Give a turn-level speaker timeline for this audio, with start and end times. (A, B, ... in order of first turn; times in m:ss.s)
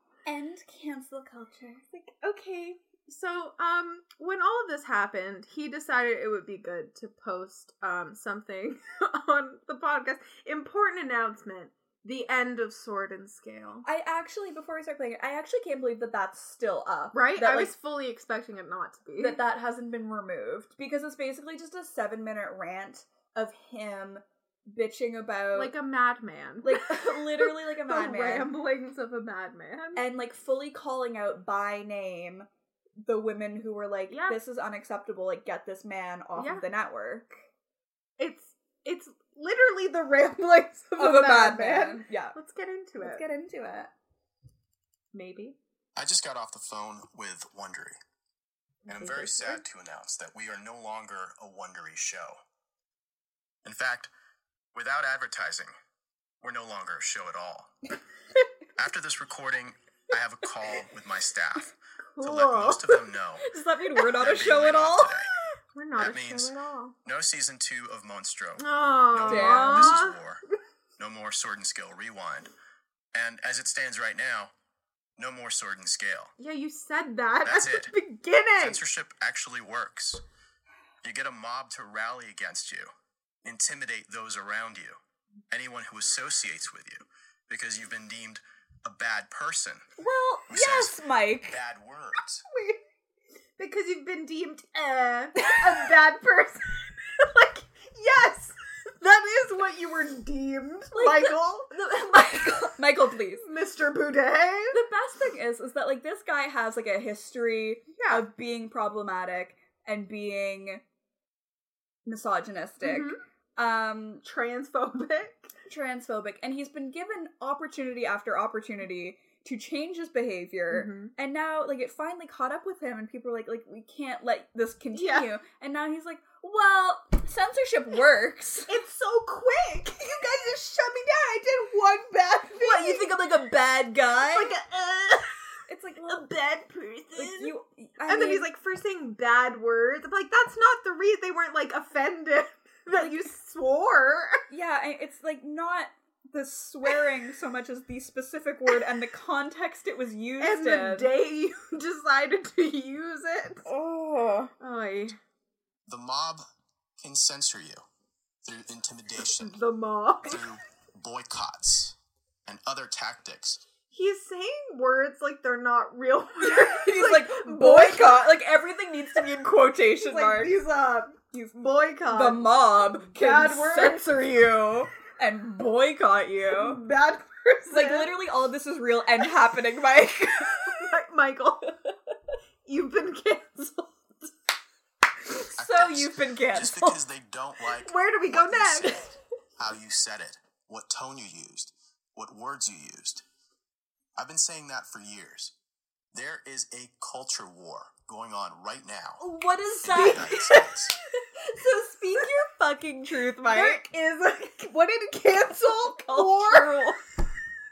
0:00.2-0:01.9 A
0:01.9-0:13.9 B
0:13.8-0:17.7 A
0:17.1-0:19.4 B
0:19.2-0:25.7 A
0:25.6-0:30.0 B
0:26.6-0:28.5 A
0:30.0-0:32.5 A
0:33.0-0:37.4 A
0:34.1-0:34.4 B
0:36.4-0:36.6 B
0:38.2-0:43.2 B
0:41.0-0:42.4 A
0:43.0-0:43.9 A
0:45.1-0:45.6 B
0:46.0-0:48.0 C
0:48.9-0:49.6 B
0:48.9-0:52.4 C
0:53.6-0:54.1 C
0:54.7-0:55.7 C
0:56.4-0:57.7 C
0:58.8-1:03.5 C
1:02.2-1:03.0 B
1:03.4-1:05.2 A
1:04.2-1:05.3 C
1:05.7-1:07.0 B
1:06.0-1:10.4 C
1:08.6-1:10.2 B
1:09.3-1:10.0 A
1:11.0-1:12.5 C
1:13.1-1:14.5 C
1:15.2-1:16.3 C
1:16.4-1:18.8 B
1:17.4-1:17.9 C
1:18.6-1:20.2 C
1:21.0-1:22.9 C
1:23.4-1:25.0 C
1:25.5-1:29.8 C
1:30.0-1:31.6 A
1:30.5-1:32.4 C
1:32.5-1:32.8 B
1:33.6-1:41.7 B
1:40.9-1:43.4 A
1:43.4-1:44.8 B
1:44.7-1:50.8 A
1:48.0-1:48.3 B
1:52.1-1:54.2 A
1:52.8-1:53.2 B
1:54.2-1:55.5 B
1:55.7-2:08.7 A
2:00.7-2:01.1 B
2:04.9-2:05.3 B
2:08.7-2:13.1 B
2:12.5-2:14.6 A
2:14.2-2:15.4 B
2:15.7-2:16.3 A
2:16.0-2:17.5 B
2:17.2-2:18.5 A
2:18.1-2:24.4 B
2:24.5-2:31.1 A
2:30.4-2:33.7 B
2:33.7-2:34.5 A
2:34.6-2:35.2 B
2:35.9-2:36.4 C
2:37.0-2:37.8 C
2:38.4-2:39.6 C
2:39.4-2:40.4 B
2:40.3-2:42.0 C
2:42.5-2:43.6 C
2:43.9-2:48.2 B
2:46.4-2:50.6 A
2:50.0-2:52.5 B
2:52.1-2:56.8 A
2:53.1-2:54.0 B
2:56.5-2:58.2 B
2:57.7-3:00.8 A
3:00.6-3:01.8 B
3:02.7-3:04.3 B
3:05.6-3:07.0 A
3:05.6-3:13.2 C
3:07.7-3:09.1 B
3:14.2-3:15.5 C
3:16.1-3:19.2 C
3:19.2-3:20.7 A
3:19.8-3:21.0 C
3:20.0-3:20.8 B
3:21.3-3:23.8 A
3:23.4-3:26.9 B
3:26.0-3:27.0 A